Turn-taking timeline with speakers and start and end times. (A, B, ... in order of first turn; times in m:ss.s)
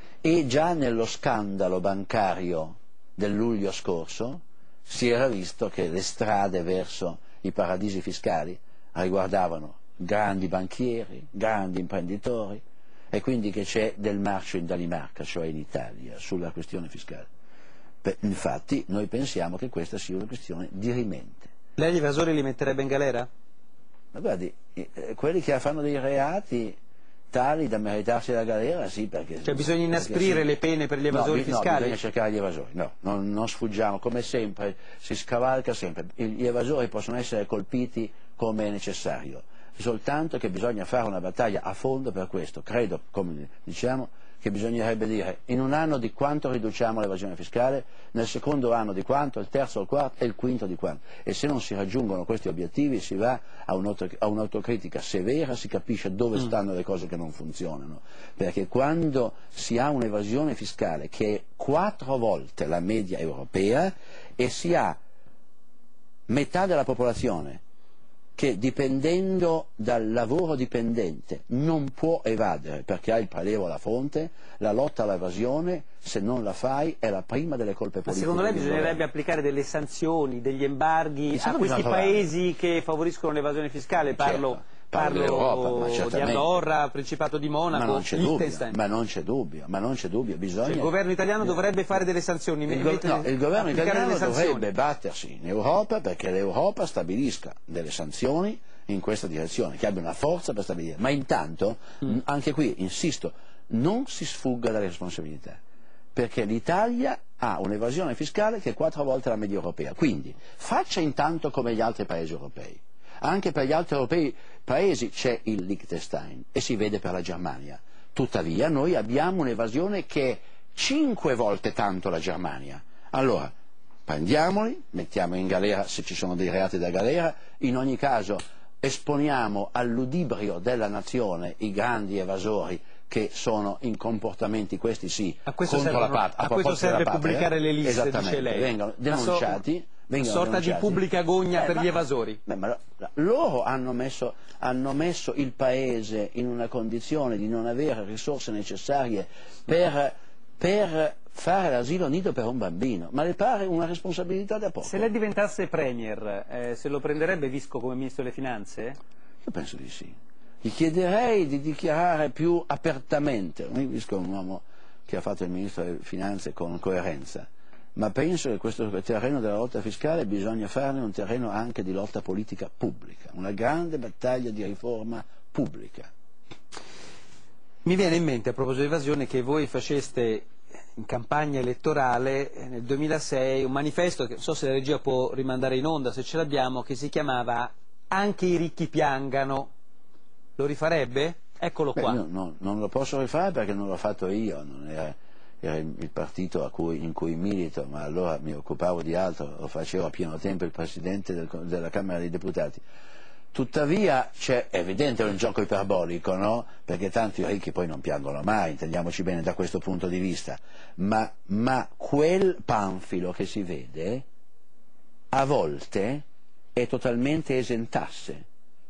0:00.2-0:17.3 A
0:18.0-0:21.5 A
0:21.8-0:23.3 B
0:24.1-0:26.8 A
0:27.3-0:30.5 A
0:29.4-0:32.0 B
0:31.1-1:05.0 A
1:06.3-1:07.6 A
1:08.4-1:19.0 A
1:18.1-1:28.8 B
1:21.3-1:22.3 A
1:24.1-1:26.5 A
1:27.7-1:30.9 A
1:30.6-1:34.7 B
1:32.7-1:45.6 A
1:46.1-2:03.5 A
2:04.1-2:21.0 A
2:15.5-2:19.6 B
2:20.2-2:22.4 B
2:21.6-2:21.9 A
2:22.4-2:35.1 A
2:34.8-2:39.0 B
2:39.4-2:56.1 A
2:57.8-3:09.7 B
3:10.6-3:12.2 B
3:11.9-3:22.8 A
3:23.5-3:34.2 A
3:35.3-3:36.2 A
3:36.8-3:38.4 A